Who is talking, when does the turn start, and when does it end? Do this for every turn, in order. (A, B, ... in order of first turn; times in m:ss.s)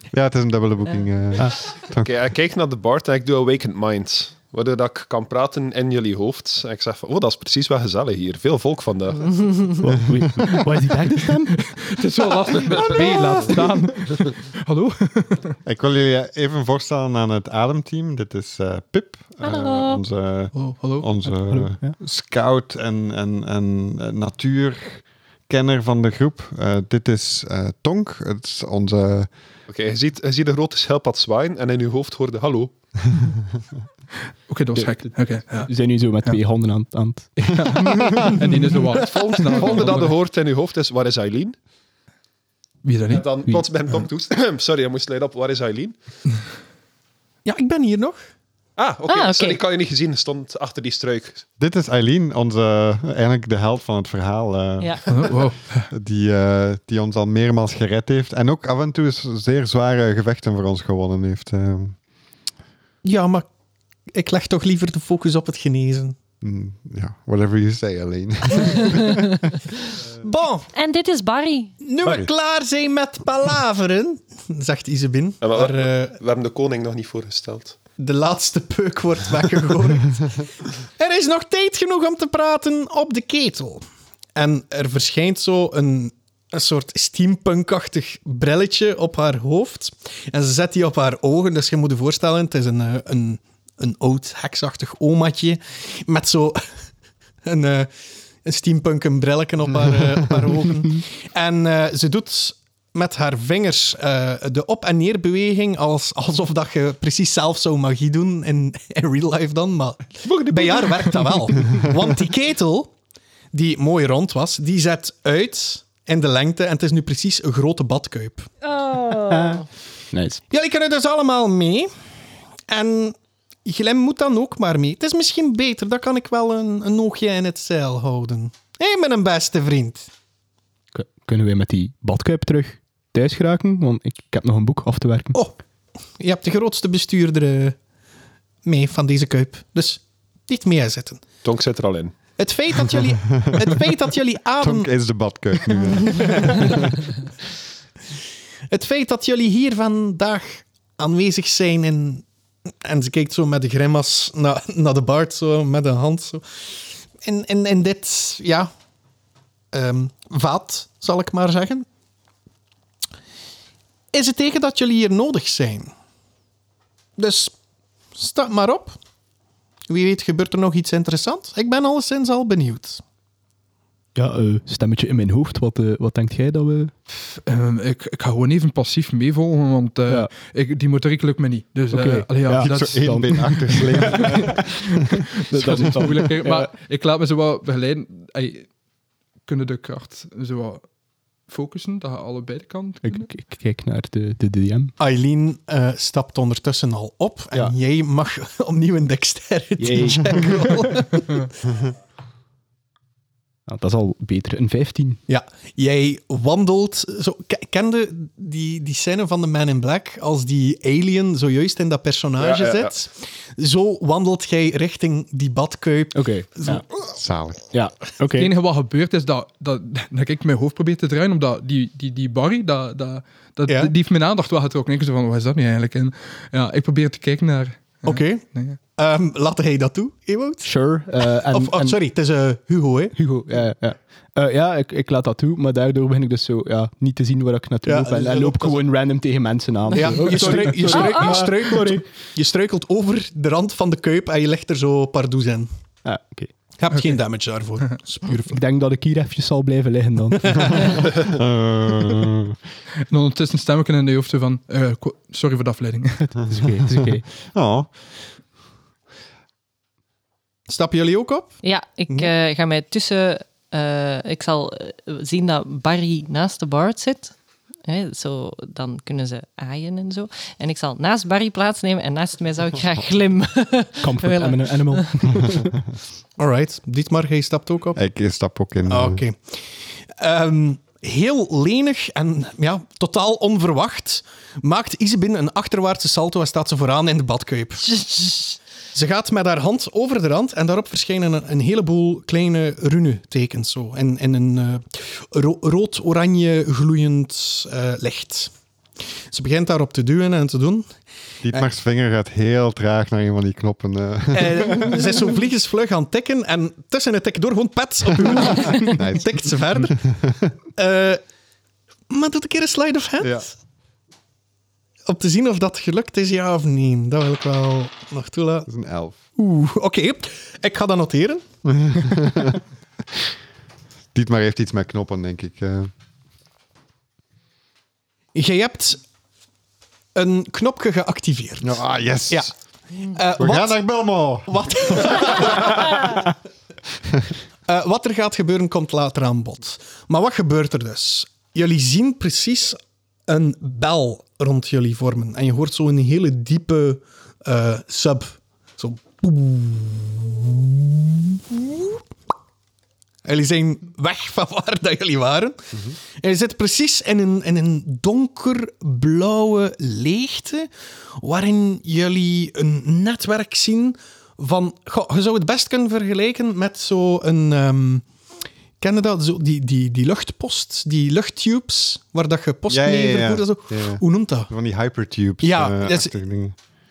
0:00.1-0:02.1 A
0:02.0-0:09.8 B
0:09.8-0:11.6 C
0:10.1-0:10.5 A
0:11.5-0:15.6 D
0:15.6-0:29.3 A
0:19.4-0:20.0 E
0:20.5-0:21.1 D
0:21.3-0:21.9 C
0:29.7-0:32.7 B
0:34.5-0:35.7 D
0:34.8-0:38.2 C
0:37.4-0:40.2 D
0:39.0-0:41.6 B
0:42.8-0:43.2 D
0:43.1-0:46.0 B
0:47.4-0:48.2 F
0:48.8-0:51.4 B
0:49.1-0:49.6 E
0:51.6-0:55.4 A
0:55.1-0:55.9 D
0:55.9-1:01.9 A
1:03.0-1:03.4 F
1:04.1-1:06.2 F
1:06.4-1:09.4 A
1:08.6-1:09.3 E
1:10.2-1:10.7 F
1:10.7-1:11.8 E
1:11.8-1:16.2 F
1:15.4-1:17.8 B
1:18.0-1:23.8 F
1:24.4-1:36.6 F
1:37.4-1:37.9 F
1:38.4-1:52.9 F
1:50.2-1:51.4 B
1:53.5-1:58.5 F
1:58.6-1:59.6 E
1:59.2-1:59.6 C
2:00.1-2:00.4 C
2:00.5-2:01.9 F
2:02.7-2:10.1 F
2:10.9-2:15.4 C
2:16.2-2:17.8 F
2:18.6-2:21.2 F
2:21.4-2:22.1 B
2:22.3-2:24.9 F
2:24.6-2:26.9 A
2:25.7-2:26.9 F
2:28.7-2:38.7 F
2:39.7-2:41.8 F
2:44.1-2:45.9 F
2:47.2-2:47.5 F
2:48.1-2:49.0 F
2:49.9-2:53.0 F
2:54.1-2:56.9 C
2:57.1-3:04.6 D
3:01.9-3:06.7 C
3:02.5-3:04.9 A
3:05.4-3:08.7 D
3:09.4-3:10.9 D
3:11.5-3:13.3 D
3:13.0-3:14.9 C
3:15.0-3:21.5 F
3:19.8-3:20.9 C
3:23.7-3:25.2 C
3:25.3-3:36.8 F
3:32.4-3:32.9 B
3:36.1-3:36.8 C
3:37.1-3:37.7 A
3:37.7-3:38.5 C
3:38.3-3:48.8 D
3:43.7-3:43.9 F
3:48.0-3:50.7 F
3:50.6-3:52.0 C
3:51.5-3:53.1 F
3:53.1-4:02.0 C
3:57.8-3:58.8 F
3:59.9-4:05.7 F
4:00.2-4:00.7 D
4:00.9-4:01.5 E
4:06.0-4:06.5 C
4:06.8-4:08.6 F
4:08.4-4:11.0 C
4:10.8-4:12.6 A
4:13.1-4:16.3 D
4:16.5-4:17.2 C
4:17.4-4:17.9 A
4:20.7-4:21.6 F
4:21.6-4:27.3 E
4:27.8-4:35.1 E
4:34.0-4:35.8 C
4:36.4-4:38.0 F
4:38.0-4:39.2 A
4:38.9-4:58.5 F
4:59.3-5:00.9 F
5:01.4-5:05.0 A
5:04.3-5:10.0 F
5:08.5-5:10.4 A
5:10.7-5:11.2 F
5:12.1-5:13.5 F
5:13.2-5:13.5 A
5:15.1-5:18.7 F
5:18.7-5:19.2 A
5:19.4-5:21.4 F
5:21.6-5:22.6 A
5:24.1-5:25.9 A
5:28.3-5:29.0 F
5:30.1-5:32.5 F
5:31.6-5:32.5 A
5:33.0-5:33.8 F
5:33.4-5:35.8 A
5:34.4-5:36.3 F
5:37.6-5:52.0 F
5:53.2-6:08.0 F
6:08.8-6:14.5 F
6:12.7-6:16.6 A
6:15.4-6:16.1 F